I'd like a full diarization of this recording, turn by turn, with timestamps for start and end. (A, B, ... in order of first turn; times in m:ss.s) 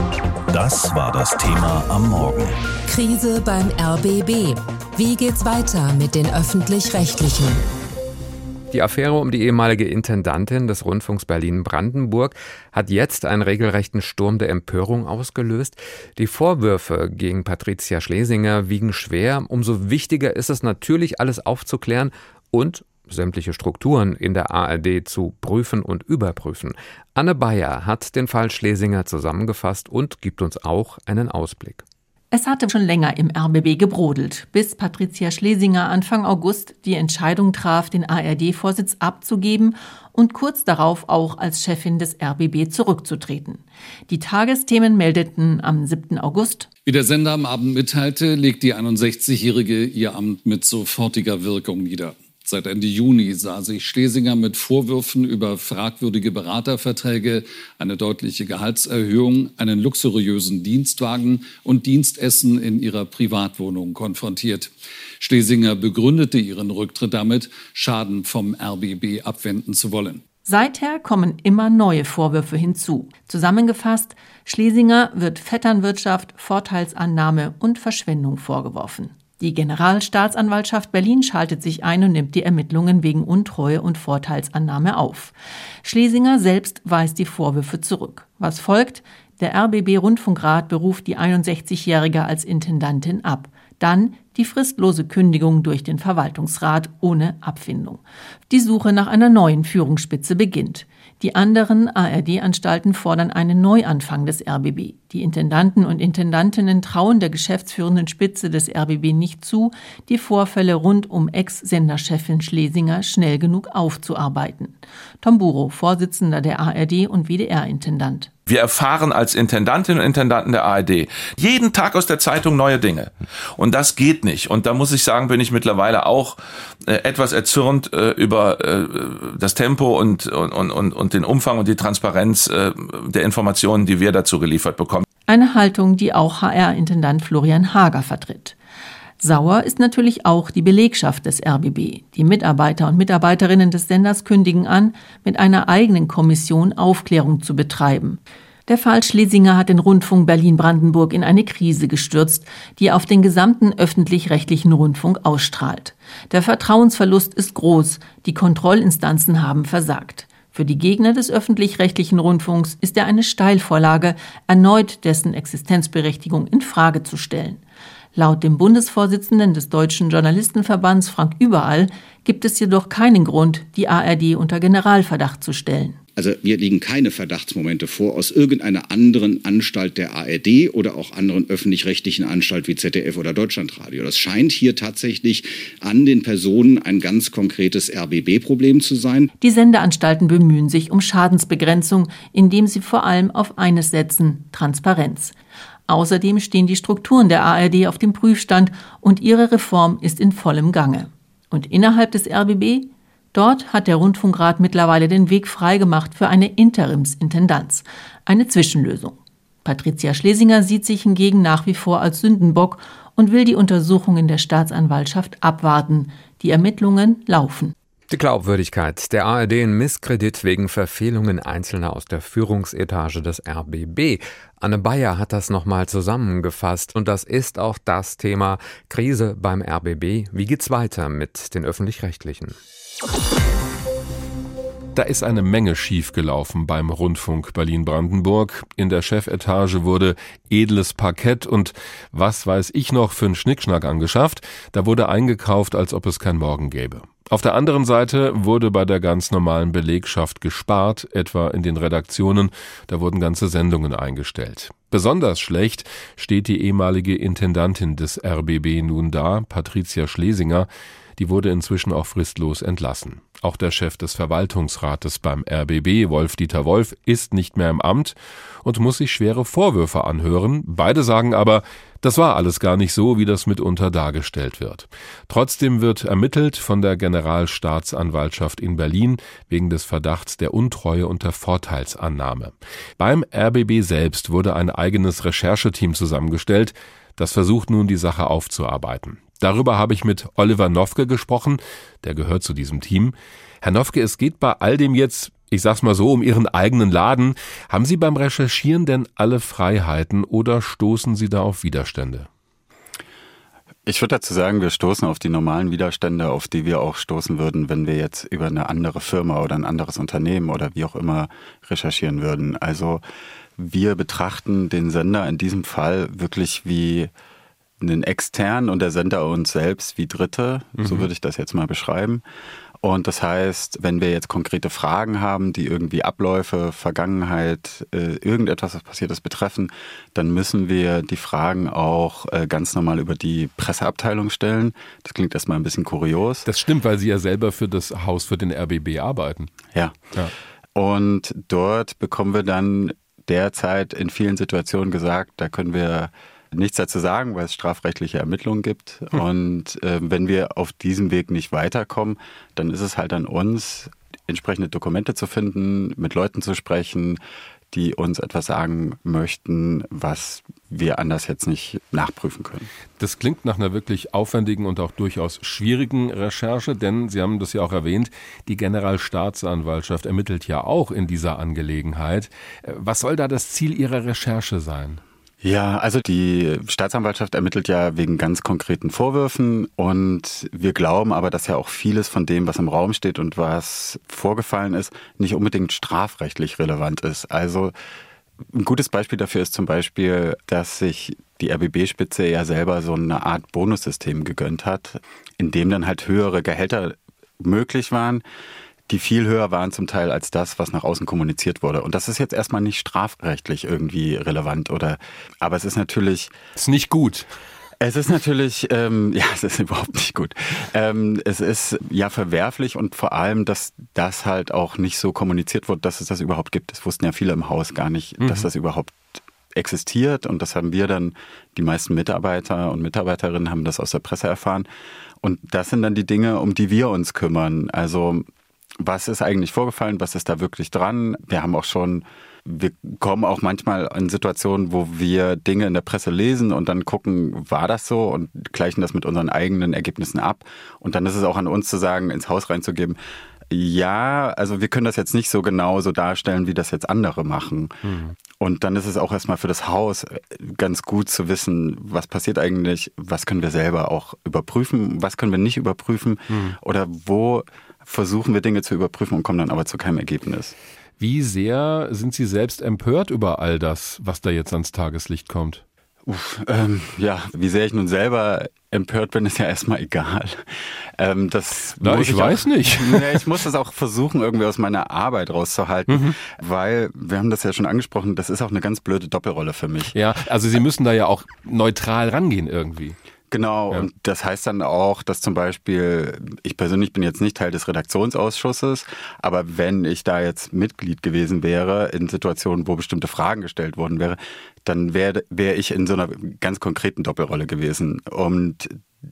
0:00.5-0:02.6 A
0:02.9-0:07.6 B
0:08.7-0:31.8 C
0:32.3-0:46.7 D
0:46.8-1:10.2 E
1:10.4-1:58.3 D
1:58.5-2:15.0 F
2:15.3-2:18.6 D
2:19.2-2:47.6 D
2:48.1-2:56.0 D
2:56.2-3:09.3 G
3:09.4-3:15.3 D
3:15.9-3:37.7 D
3:38.1-3:52.6 C
3:54.9-5:02.3 H
5:03.8-5:13.0 I
5:13.6-5:17.1 I
5:17.8-5:22.2 I
5:20.8-5:21.1 H
5:22.8-5:36.5 I
5:36.5-5:39.5 H
5:40.7-5:57.2 I
5:57.7-6:02.7 I
6:03.0-6:15.0 H
6:15.4-6:27.7 I
6:28.5-6:38.2 I
6:38.9-6:46.3 I
6:46.6-6:47.3 H
6:47.8-7:04.7 I
6:58.2-6:58.5 H
7:05.2-7:08.2 I
7:08.8-7:23.0 I
7:23.5-7:27.8 I
7:27.8-7:28.1 H
7:28.4-7:40.5 I
7:36.3-7:36.6 H
7:41.0-7:45.6 H
7:46.0-8:00.0 I
7:51.8-7:53.2 H
7:55.9-7:56.1 H
7:59.9-8:03.0 H
8:03.3-8:18.8 I